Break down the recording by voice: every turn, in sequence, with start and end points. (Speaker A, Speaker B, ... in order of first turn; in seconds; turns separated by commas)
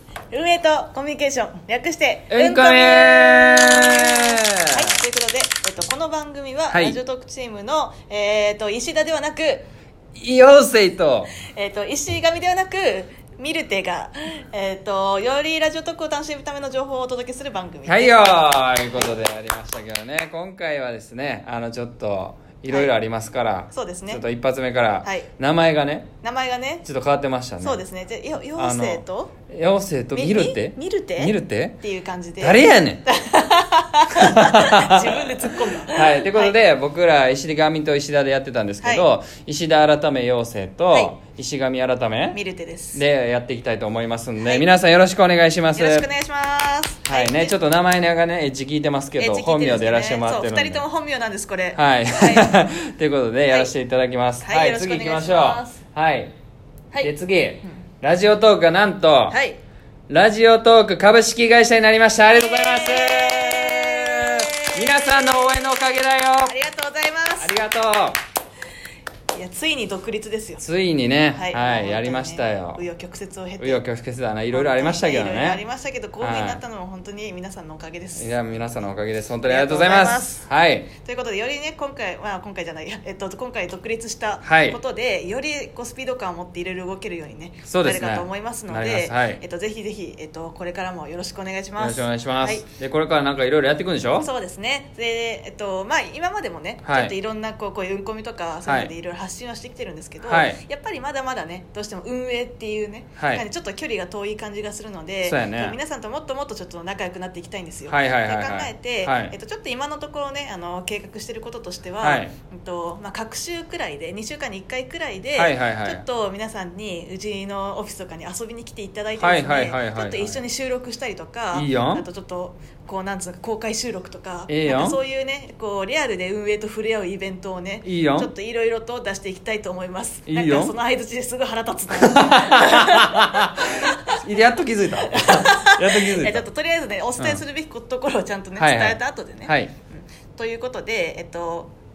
Speaker A: 0.3-9.7, Speaker B: 2.3-4.9, Speaker B: 6.7-7.0, Speaker B: 10.1-11.3, Speaker A: 11.4-19.2, Speaker B: 17.9-26.1, Speaker A: 22.7-22.9, Speaker A: 23.7-24.2, Speaker A: 25.0-25.3, Speaker A: 26.2-26.9, Speaker B: 26.8-27.8, Speaker A: 27.6-29.3, Speaker B: 28.6-31.8, Speaker A: 30.1-36.6, Speaker B: 32.4-33.0, Speaker B: 34.2-34.9, Speaker B: 35.9-42.4, Speaker A: 38.8-39.1, Speaker A: 42.3-43.0, Speaker B: 42.9-46.0, Speaker A: 44.4-44.7, Speaker A: 45.7-47.5, Speaker B: 47.0-50.8, Speaker A: 49.1-52.7, Speaker B: 51.7-56.3, Speaker A: 54.4-55.8, Speaker B: 57.0-59.4, Speaker A: 59.3-59.6, Speaker B: 60.1-66.5, Speaker A: 62.3-65.7, Speaker A: 66.4-67.5, Speaker B: 67.4-68.2, Speaker A: 69.3-70.7, Speaker B: 70.6-72.8, Speaker A: 71.3-73.8, Speaker B: 73.6-75.6, Speaker A: 74.5-78.4, Speaker B: 76.2-76.6, Speaker B: 78.2-80.9, Speaker A: 79.4-80.5, Speaker A: 81.0-92.7, Speaker B: 84.4-84.8, Speaker B: 87.7-89.4, Speaker B: 91.8-94.3, Speaker A: 94.2-134.2, Speaker B: 96.8-97.1, Speaker B: 98.7-98.9, Speaker B: 100.2-100.6, Speaker B: 103.2-103.4, Speaker B: 105.2-105.8, Speaker B: 107.9-109.3, Speaker B: 112.0-112.3, Speaker B: 115.3-116.0, Speaker B: 119.2-120.4, Speaker B: 121.5-122.0, Speaker B: 124.5-125.0, Speaker B: 127.8-128.3, Speaker B: 130.2-130.7, Speaker B: 132.0-136.4, Speaker A: 135.0-141.7, Speaker B: 138.6-139.7